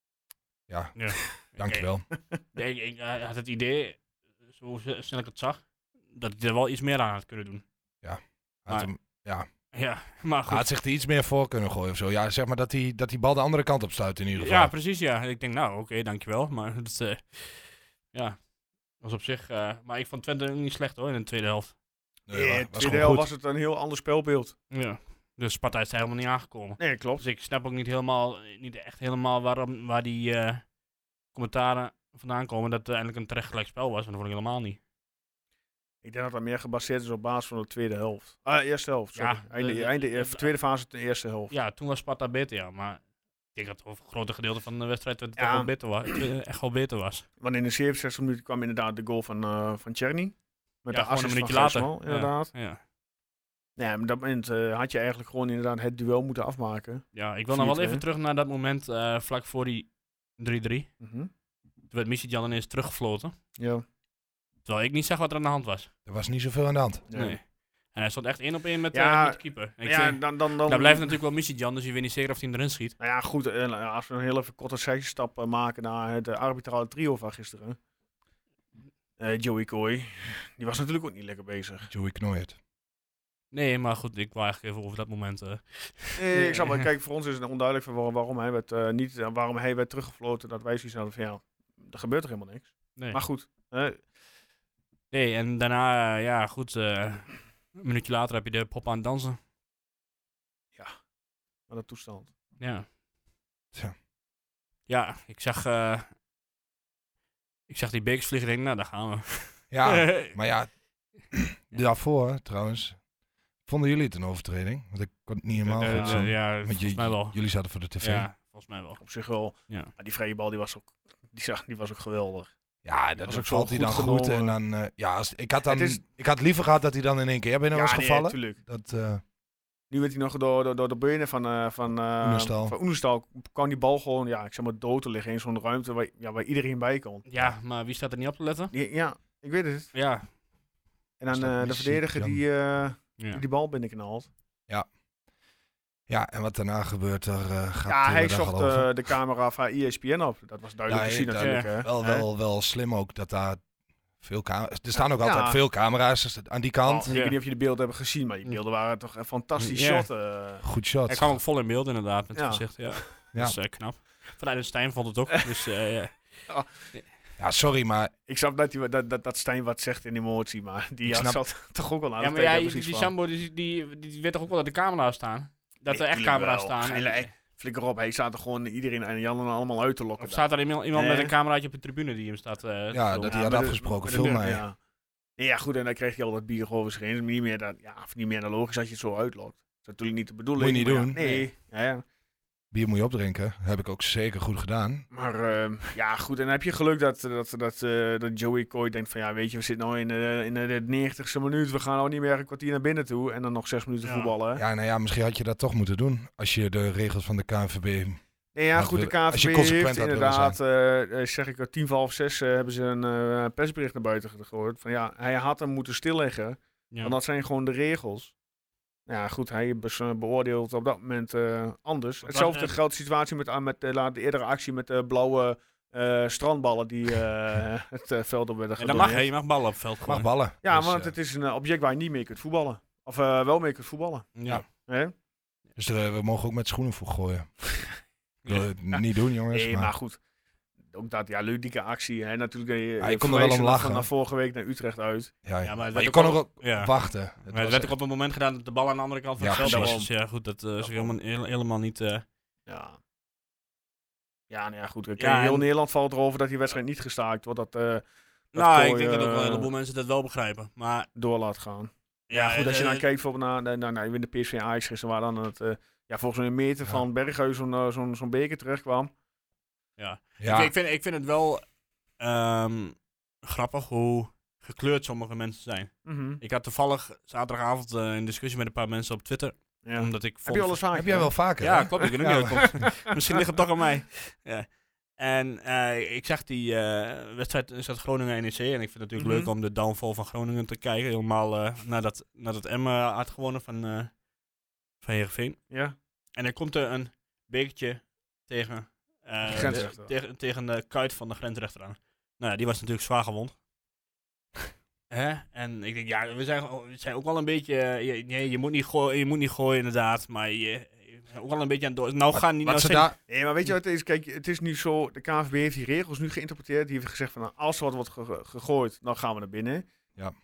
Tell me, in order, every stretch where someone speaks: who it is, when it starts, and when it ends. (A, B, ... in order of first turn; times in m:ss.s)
0:00.7-0:02.1 A
0:01.0-0:01.9 B
0:02.6-0:07.6 B
0:08.0-0:09.5 A
0:09.7-0:10.7 B
0:10.5-0:14.7 A
0:14.4-0:18.4 B
0:19.0-0:21.8 B
0:22.3-0:23.3 A
0:22.3-0:24.6 C
0:24.7-0:30.7 B
0:26.8-0:27.3 C
0:31.3-0:34.8 B
0:36.0-0:41.5 C
0:39.2-0:40.5 B
0:41.5-0:43.0 B
0:43.6-0:47.3 B
0:45.4-0:46.2 C
0:47.4-0:52.5 C
0:50.9-0:52.8 B
0:53.8-0:58.0 C
0:57.1-1:00.9 B
1:01.0-1:01.3 C
1:01.9-1:03.3 B
1:03.6-1:03.8 C
1:04.6-1:05.9 B
1:06.1-1:07.0 A
1:07.1-1:07.4 C
1:07.1-1:13.0 B
1:08.9-1:11.2 C
1:13.0-1:17.8 C
1:19.2-1:21.9 C
1:21.9-1:22.6 A
1:23.5-1:26.9 B
1:26.2-1:34.0 C
1:35.1-1:39.4 B
1:41.7-1:42.3 C
1:42.6-1:42.9 B
1:44.9-1:46.1 B
1:47.7-1:50.4 B
1:49.7-1:50.7 A
1:51.3-1:53.0 A
1:53.7-1:58.3 A
1:55.7-1:57.4 B
1:55.8-1:56.2 C
1:58.0-1:59.0 B
1:59.0-2:02.5 C
2:02.8-2:09.2 A
2:03.2-2:04.6 C
2:05.7-2:06.0 C
2:07.7-2:08.6 C
2:09.9-2:17.2 C
2:12.2-2:12.8 A
2:17.3-2:18.7 B
2:18.7-2:19.9 C
2:19.9-2:20.3 B
2:21.2-2:24.3 C
2:21.3-2:22.4 A
2:26.1-2:28.9 A
2:27.9-2:32.2 C
2:30.9-2:33.6 A
2:31.4-2:31.7 B
2:34.2-2:37.1 A
2:34.9-2:35.6 C
2:36.8-2:40.6 C
2:37.1-2:37.4 B
2:39.6-2:40.1 B
2:40.6-2:41.4 A
2:41.1-2:46.4 B
2:42.4-2:43.1 C
2:46.5-2:46.9 C
2:47.4-2:48.1 A
2:48.3-2:53.1 C
2:51.1-2:51.4 A
2:52.2-2:57.3 B
2:55.9-3:01.3 C
3:00.2-3:03.6 B
3:02.9-3:04.6 A
3:03.3-3:04.8 C
3:05.4-3:12.0 C
3:10.6-3:11.2 A
3:11.2-3:11.5 B
3:12.7-3:15.1 A
3:15.1-3:24.6 C
3:24.0-3:24.3 B
3:24.6-3:28.2 A
3:28.5-3:38.3 C
3:28.8-3:30.6 A
3:39.1-3:49.3 C
3:42.2-3:42.8 B
3:48.8-3:50.3 B
3:50.0-3:51.1 A
3:50.6-3:55.1 C
3:54.4-3:54.7 B
3:55.8-3:57.5 A
3:58.5-3:59.9 A
3:59.5-4:00.2 C
4:00.9-4:05.3 C
4:03.0-4:04.1 A
4:05.4-4:07.9 A
4:05.6-4:12.2 B
4:09.4-4:10.0 A
4:09.6-4:10.1 C
4:10.8-4:11.1 C
4:12.7-4:13.0 C
4:14.5-4:19.7 C
4:15.2-4:15.7 B
4:18.5-4:21.1 B
4:21.2-4:29.1 C
4:22.3-4:23.0 B
4:30.0-4:31.6 B
4:30.4-4:30.7 A
4:32.2-4:40.8 B
4:36.0-4:36.4 C
4:39.8-4:41.4 C
4:40.9-4:42.7 A
4:41.6-4:54.1 B
4:42.6-4:42.9 C
4:49.2-4:49.5 C
4:55.0-4:55.6 B
4:55.7-4:56.0 C
4:56.4-5:03.6 B
4:59.4-5:00.1 C
5:05.1-5:13.1 B
5:12.3-5:13.2 A
5:13.3-5:19.9 C